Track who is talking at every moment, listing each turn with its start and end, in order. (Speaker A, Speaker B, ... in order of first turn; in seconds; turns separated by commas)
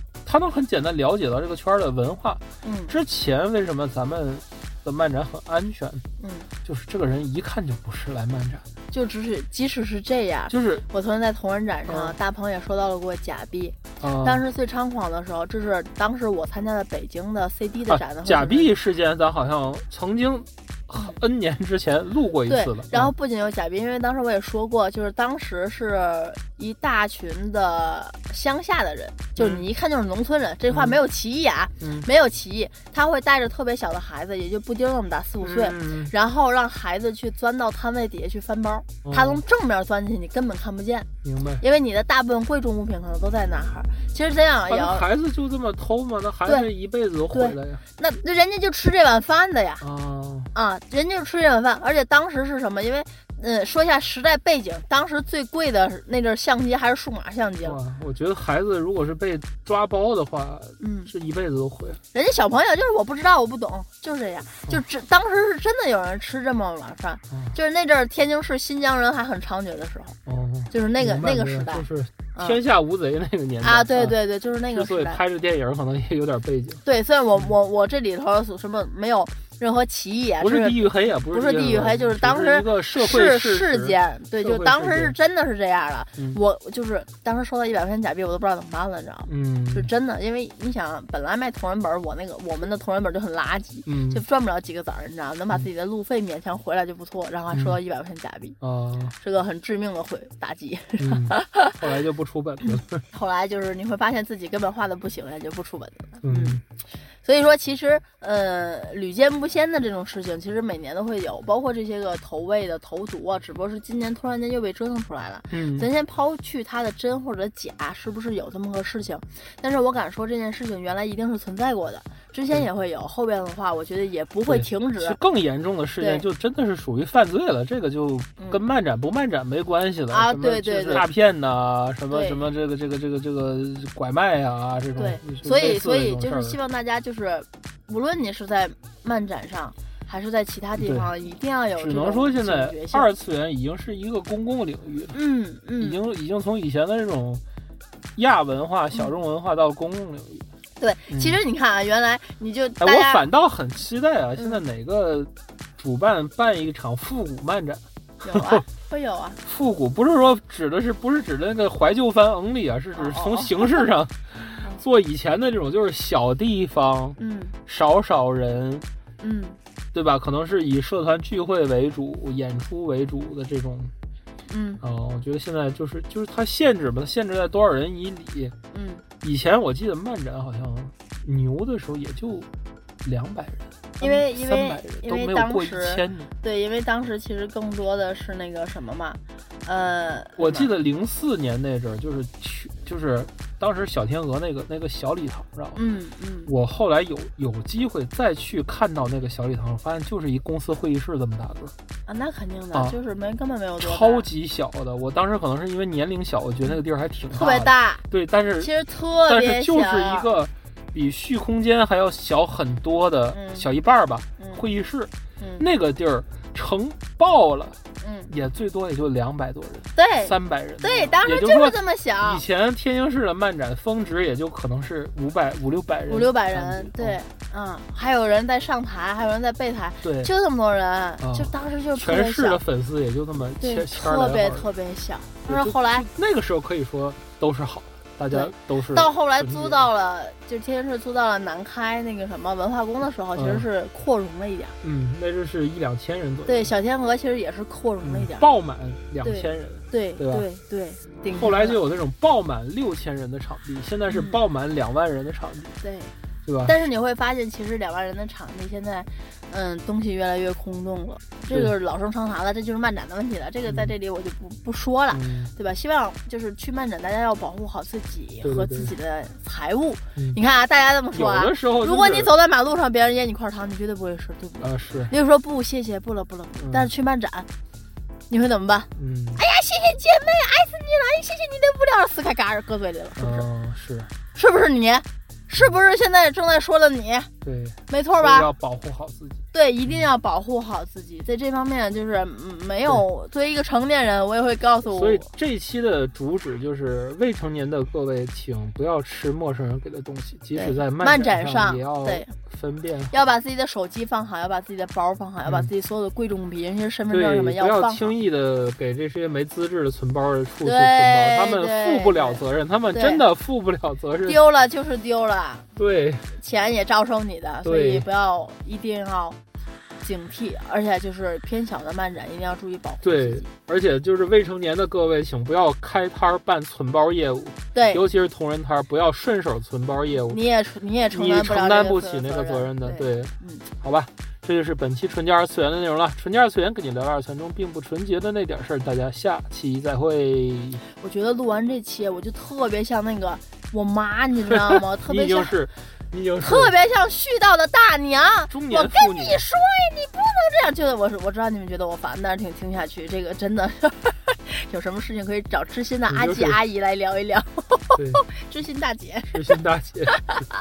Speaker A: 0.2-6.0, Speaker B: 2.6-2.9, Speaker B: 6.2-6.5, Speaker A: 6.6-8.6, Speaker B: 8.9-18.7, Speaker A: 10.5-10.8, Speaker A: 11.9-12.2, Speaker A: 14.0-14.4, Speaker A: 17.9-23.1, Speaker B: 22.5-41.1, Speaker A: 29.4-29.6, Speaker A: 30.7-31.0, Speaker A: 31.8-32.1, Speaker A: 35.4-36.1, Speaker A: 39.0-39.4, Speaker A: 41.2-41.6, Speaker B: 41.6-45.0, Speaker A: 44.7-47.8, Speaker B: 47.3-49.8, Speaker A: 49.8-50.5, Speaker B: 50.5-57.8, Speaker A: 57.6-62.0, Speaker B: 60.8-61.1, Speaker B: 62.1-70.2, Speaker A: 67.3-67.5, Speaker A: 70.2-76.8, Speaker B: 70.7-72.6, Speaker B: 73.6-75.2, Speaker B: 76.8-98.6, Speaker A: 80.4-85.1, Speaker A: 89.3-89.9, Speaker A: 93.8-94.2, Speaker A: 97.5-97.8, Speaker A: 98.6-99.2, Speaker B: 99.2-101.8, Speaker A: 101.0-103.0, Speaker B: 102.7-106.6, Speaker A: 106.2-106.6, Speaker B: 107.2-125.2, Speaker A: 115.5-115.9, Speaker A: 124.5-136.6, Speaker B: 126.0-126.2, Speaker B: 130.1-131.1, Speaker B: 132.1-132.4, Speaker B: 134.9-143.1, Speaker A: 140.8-141.1, Speaker A: 141.8-145.2, Speaker B: 145.1-146.0, Speaker A: 145.8-147.4, Speaker A: 148.1-150.4, Speaker B: 150.8-153.2, Speaker A: 151.1-151.4, Speaker A: 152.8-158.6, Speaker B: 158.2-159.4, Speaker A: 159.4-168.8, Speaker B: 162.9-163.9, Speaker B: 167.2-167.5, Speaker B: 169.2-169.6, Speaker A: 169.9-173.9, Speaker B: 174.5-174.8, Speaker A: 174.8-178.5, Speaker B: 178.7-179.0, Speaker A: 179.2-182.5, Speaker A: 183.0-186.3, Speaker B: 184.0-190.7, Speaker A: 190.4-195.8, Speaker B: 195.8-196.5, Speaker A: 196.4-201.7, Speaker B: 202.1-204.3, Speaker A: 203.8-208.7, Speaker B: 207.3-208.0, Speaker B: 208.6-210.3, Speaker A: 209.3-227.2, Speaker B: 213.3-213.7, Speaker B: 214.4-214.6, Speaker B: 215.4-215.7, Speaker B: 218.0-218.3, Speaker B: 219.9-222.4, Speaker B: 226.1-232.6, Speaker A: 230.0-230.3, Speaker A: 231.2-234.7, Speaker B: 233.6-236.1, Speaker A: 235.4-239.8, Speaker B: 238.3-244.8, Speaker A: 243.3-243.7, Speaker A: 244.8-246.7, Speaker B: 246.4-248.5, Speaker A: 248.0-250.5, Speaker B: 249.2-251.8, Speaker A: 251.3-255.8, Speaker B: 254.1-254.4, Speaker B: 255.8-256.1, Speaker A: 256.4-256.9, Speaker B: 256.6-277.5, Speaker A: 263.7-263.9, Speaker A: 265.1-265.5, Speaker A: 268.4-268.9, Speaker A: 271.1-272.3, Speaker A: 274.6-275.1, Speaker A: 276.6-276.9, Speaker B: 278.3-283.5, Speaker A: 278.9-279.4, Speaker A: 283.2-284.1, Speaker B: 284.3-287.3, Speaker A: 287.4-290.0, Speaker B: 287.9-288.5, Speaker B: 289.5-295.3, Speaker A: 294.9-303.1, Speaker B: 300.5-302.3, Speaker B: 303.1-308.1, Speaker A: 305.4-305.7, Speaker A: 307.1-314.4, Speaker B: 310.6-313.2, Speaker B: 314.2-315.7, Speaker A: 315.8-316.3, Speaker B: 316.3-319.4, Speaker A: 317.6-318.1, Speaker B: 320.0-323.5, Speaker A: 323.0-330.4, Speaker B: 327.7-328.0, Speaker B: 330.3-333.6, Speaker A: 331.1-340.8, Speaker B: 340.9-345.5, Speaker A: 344.7-346.7, Speaker B: 346.4-359.6, Speaker A: 348.5-349.4, Speaker A: 356.1-356.6, Speaker A: 357.9-358.2, Speaker A: 359.3-360.5, Speaker B: 360.1-360.4